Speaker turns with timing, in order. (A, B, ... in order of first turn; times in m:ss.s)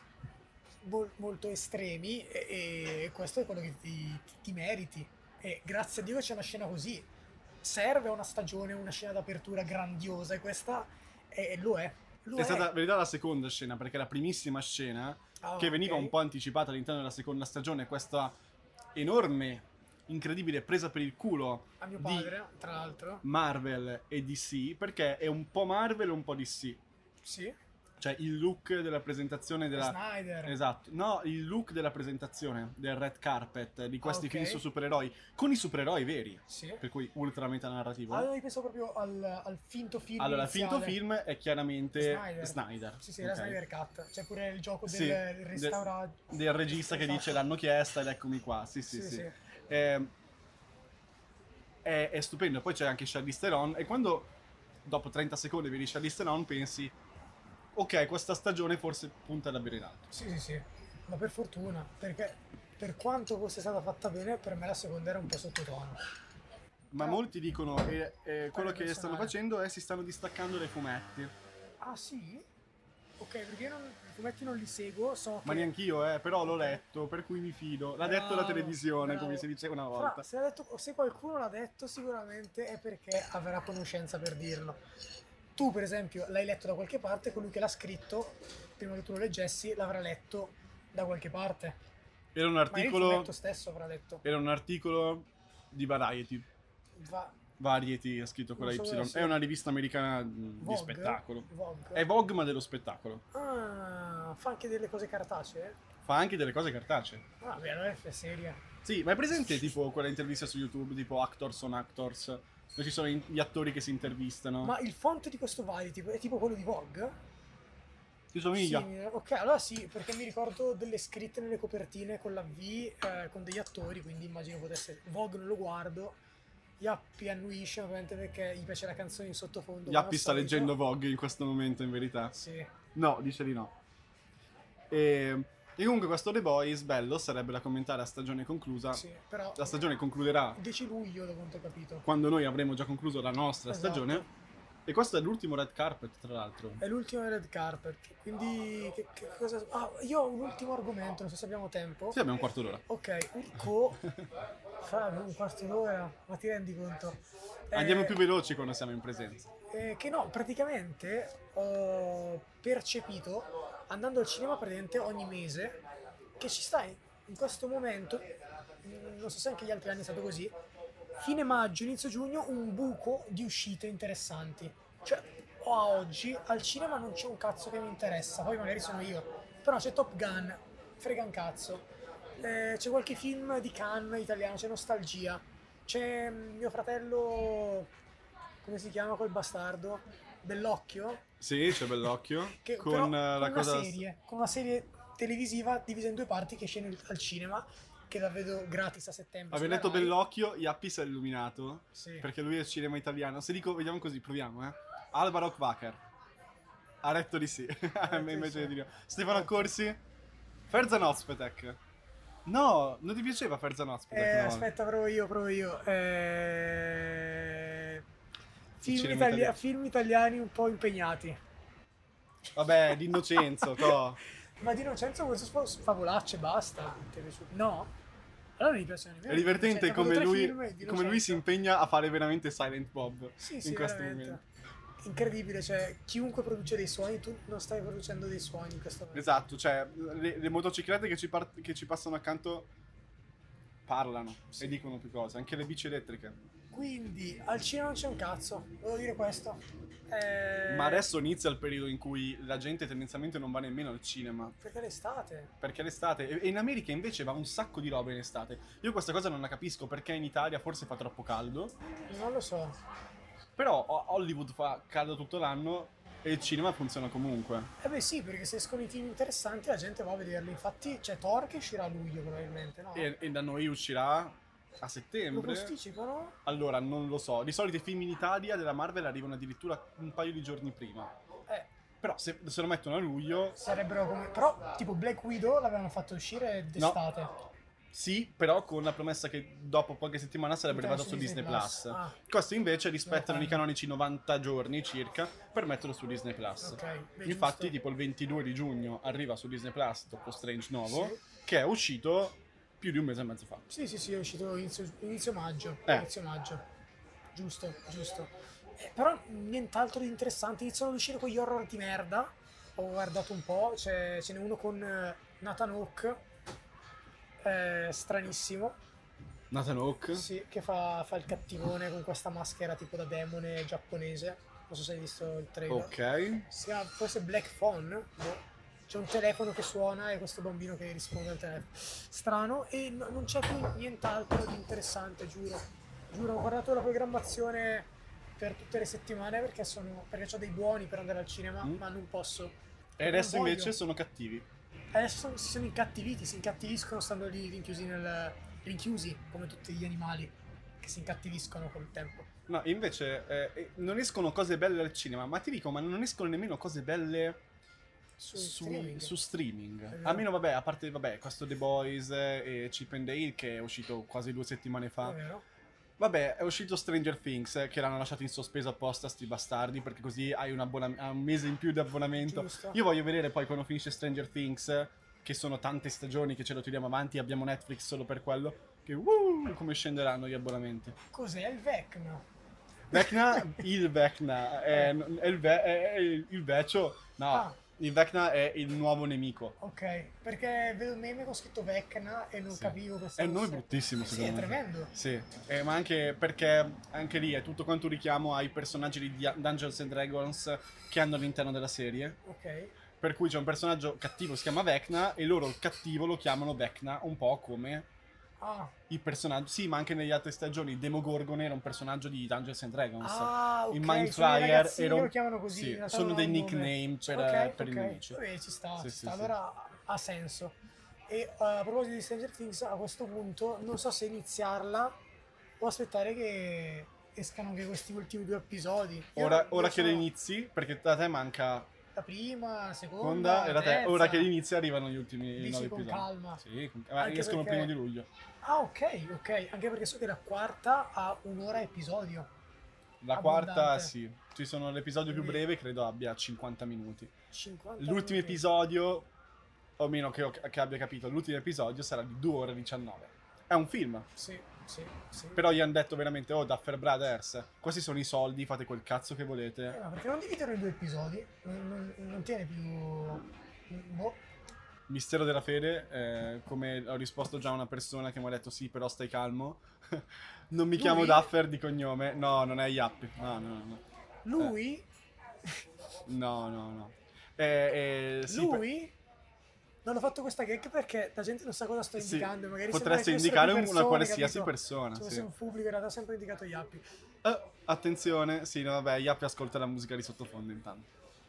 0:00.8-0:07.1 A
0:07.6-0:12.7 A
0:12.4-0:18.3 B
0:15.4-0:16.2 A
0:19.0-0:22.3 B
0:21.8-0:23.2 A
0:23.2-0:26.8 B
0:27.2-0:27.6 A
0:28.0-0:38.3 B
0:29.8-0:30.6 A
0:34.0-0:34.6 A
0:36.5-0:36.8 A
0:38.1-0:41.0 A
0:40.2-0:43.6 B
0:42.0-0:47.4 A
0:44.9-0:50.1 B
0:48.9-0:49.3 A
0:51.8-0:54.3 B
0:54.8-0:56.9 B
0:57.7-1:00.1 B
1:00.1-1:06.0 A
1:06.9-1:11.3 B
1:08.5-1:09.3 A
1:11.8-1:12.5 A
1:13.2-1:15.7 A
1:15.4-1:20.2 B
1:16.4-1:16.8 A
1:18.0-1:24.8 A
1:25.5-1:31.8 A
1:32.3-1:33.3 B
1:32.7-1:34.2 A
1:34.2-1:36.4 B
1:37.0-1:37.4 A
1:37.6-1:43.2 B
1:38.6-1:39.4 A
1:40.6-1:42.0 A
1:43.3-1:45.8 A
1:46.0-1:47.2 B
1:47.4-1:48.6 A
1:48.8-1:54.7 B
1:54.6-1:57.2 A
1:58.3-1:58.9 B
1:58.5-2:06.2 A
2:06.8-2:10.8 A
2:09.9-2:12.3 B
2:12.3-2:12.7 A
2:12.9-2:13.7 B
2:14.9-2:20.6 B
2:18.9-2:19.9 A
2:20.6-2:22.0 A
2:22.0-2:24.2 B
2:23.7-2:24.3 A
2:24.8-2:26.8 B
2:26.8-2:32.2 A
2:32.1-2:32.8 B
2:32.9-2:34.0 A
2:34.8-2:38.2 A
2:37.7-2:39.5 B
2:39.7-2:45.8 A
2:46.4-2:48.3 A
2:48.8-2:50.5 A
2:51.2-3:07.9 A
3:08.6-3:11.2 A
3:11.4-3:14.0 B
3:12.6-3:20.2 A
3:19.5-3:26.0 B
3:21.9-3:22.3 A
3:27.0-3:30.0 B
3:28.0-3:29.7 A
3:30.7-3:31.8 B
3:32.4-3:34.7 B
3:34.1-3:38.0 A
3:38.8-3:41.4 A
3:38.8-3:39.6 B
3:42.5-3:44.2 B
3:42.9-3:44.0 A
3:44.6-3:47.9 A
3:48.6-3:51.4 A
3:49.3-3:54.4 B
3:53.4-3:54.4 A
3:55.0-3:59.3 A
3:59.1-4:02.7 B
4:03.9-4:06.4 B
4:06.7-4:11.1 A
4:10.7-4:14.6 B
4:14.6-4:15.5 A
4:15.6-4:21.7 B
4:21.9-4:22.8 A
4:23.6-4:27.7 B
4:27.8-4:33.1 A
4:32.9-4:35.7 B
4:35.3-4:36.4 A
4:36.4-4:41.1 B
4:42.0-4:43.6 B
4:43.6-4:47.3 A
4:47.9-5:03.6 B
4:50.7-4:52.2 A
4:53.0-4:53.6 A
4:56.6-4:57.7 A
5:00.8-5:01.2 A
5:03.7-5:06.7 A
5:07.3-5:16.2 A
5:17.4-5:18.8 A
5:19.5-5:20.3 B
5:20.1-5:26.0 A
5:25.7-5:26.5 B
5:26.5-5:43.8 A
5:43.0-5:44.4 B
5:44.9-5:52.3 A
5:52.5-5:57.4 B
5:58.2-5:59.1 A
5:58.3-6:05.2 B
5:59.9-6:00.2 A
6:05.0-6:05.4 A
6:06.0-6:21.0 B
6:12.2-6:12.8 A
6:21.1-6:22.2 A
6:22.9-6:29.6 B
6:22.9-6:23.6 A
6:27.3-6:27.6 A
6:29.6-6:34.9 A
6:32.5-6:42.2 B
6:42.2-6:42.7 A
6:43.0-6:47.9 B
6:48.4-6:48.7 A
6:48.9-6:58.2 B
6:53.0-7:05.0 A
6:58.8-6:59.3 B
7:05.6-7:10.1 A
7:09.2-7:11.7 B
7:11.9-7:14.3 A
7:13.0-7:18.1 B
7:15.4-7:16.4 A
7:17.0-7:17.7 A
7:18.4-7:22.3 A
7:23.0-7:27.1 B
7:23.1-7:23.9 A
7:25.1-7:25.4 A
7:27.3-7:28.4 A
7:27.8-7:29.1 B
7:29.8-7:34.1 B
7:34.1-7:35.4 A
7:35.3-7:39.8 B
7:39.7-7:44.2 A
7:44.9-7:53.8 B
7:50.7-7:51.3 A
7:54.2-7:54.9 A
7:56.0-7:58.7 B
7:58.2-7:59.0 A
7:59.8-8:06.8 A
8:02.0-8:05.3 B
8:07.2-8:10.9 B